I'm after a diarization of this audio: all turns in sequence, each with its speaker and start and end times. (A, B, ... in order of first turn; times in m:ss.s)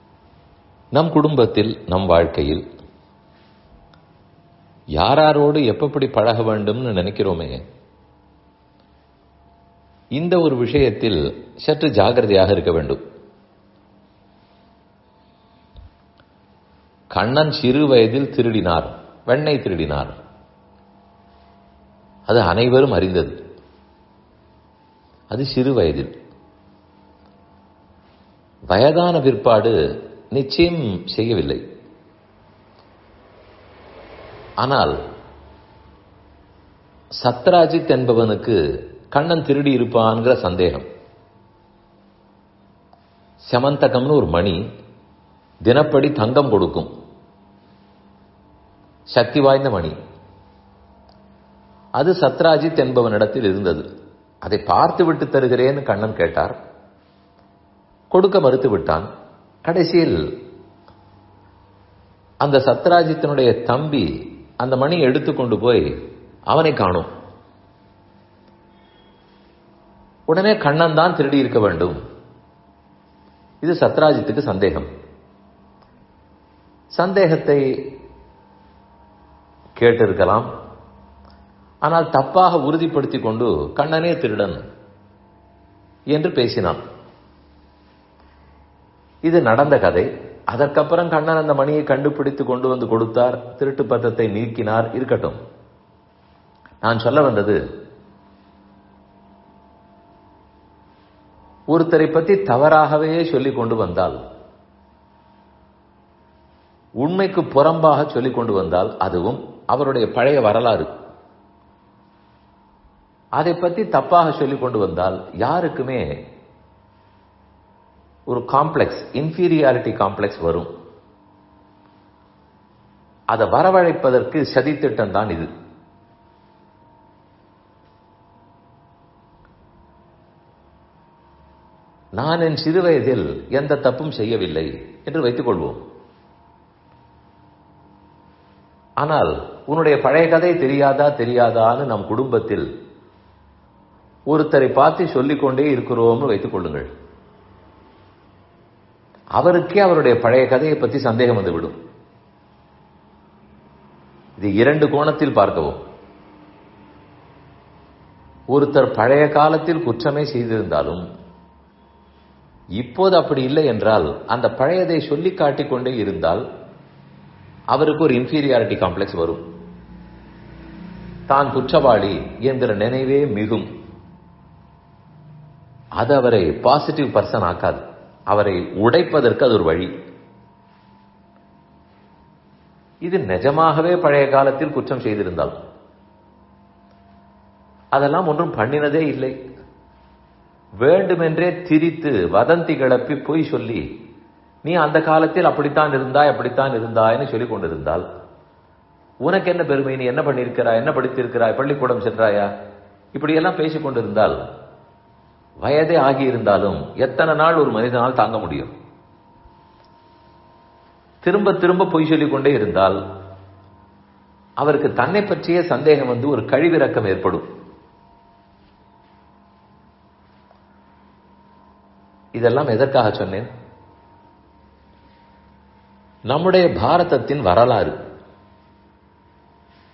0:00.9-0:02.6 A
0:05.0-0:07.6 A
0:10.1-0:13.0 A
0:17.1-0:20.1 A
0:22.3-0:23.4 A
0:25.3-0:26.1 A
0:28.7-0:29.7 A
0:30.3-0:31.6 A
0:34.6-0:35.0 A
0:37.2-0:38.6 A
0:39.1-0:40.8 A
0:43.4-0:44.6 A
0:45.6-0:46.9 A
0:49.1-0:50.0 A
0:52.0-0:53.8 A
0:54.4-0:56.5 A
0:58.1-0:59.1 A
0:59.6-1:00.2 A
1:02.4-1:05.9 A
1:06.5-1:07.1 A
1:10.3-1:12.0 A
1:13.6-1:14.9 A
1:16.9-1:17.6 A
1:19.8-1:20.5 A
1:21.8-1:24.6 A
1:26.1-1:26.8 A
1:29.2-1:35.4 A
1:36.8-1:37.6 A
1:41.7-1:44.2 A
1:47.0-1:50.9 A
1:53.3-1:56.1 A
1:58.3-2:00.7 A
2:03.3-2:05.5 A
2:12.2-2:15.8 A
2:19.0-2:22.7 A
2:24.3-2:26.9 A
2:29.4-2:31.8 A
2:34.4-2:35.8 A
2:38.5-2:41.0 A
2:42.8-2:46.4 A
2:47.7-2:49.4 A
2:51.3-2:53.7 A
2:56.0-2:59.9 A
3:03.0-3:05.6 A
3:07.9-3:09.4 A
3:10.8-3:13.8 A
3:14.6-3:18.0 A
3:19.2-3:22.5 A
3:23.1-3:24.4 A
3:25.6-3:28.7 A
3:31.2-3:33.0 A
3:34.6-3:37.4 A
3:42.3-3:43.5 A
3:46.3-3:48.0 A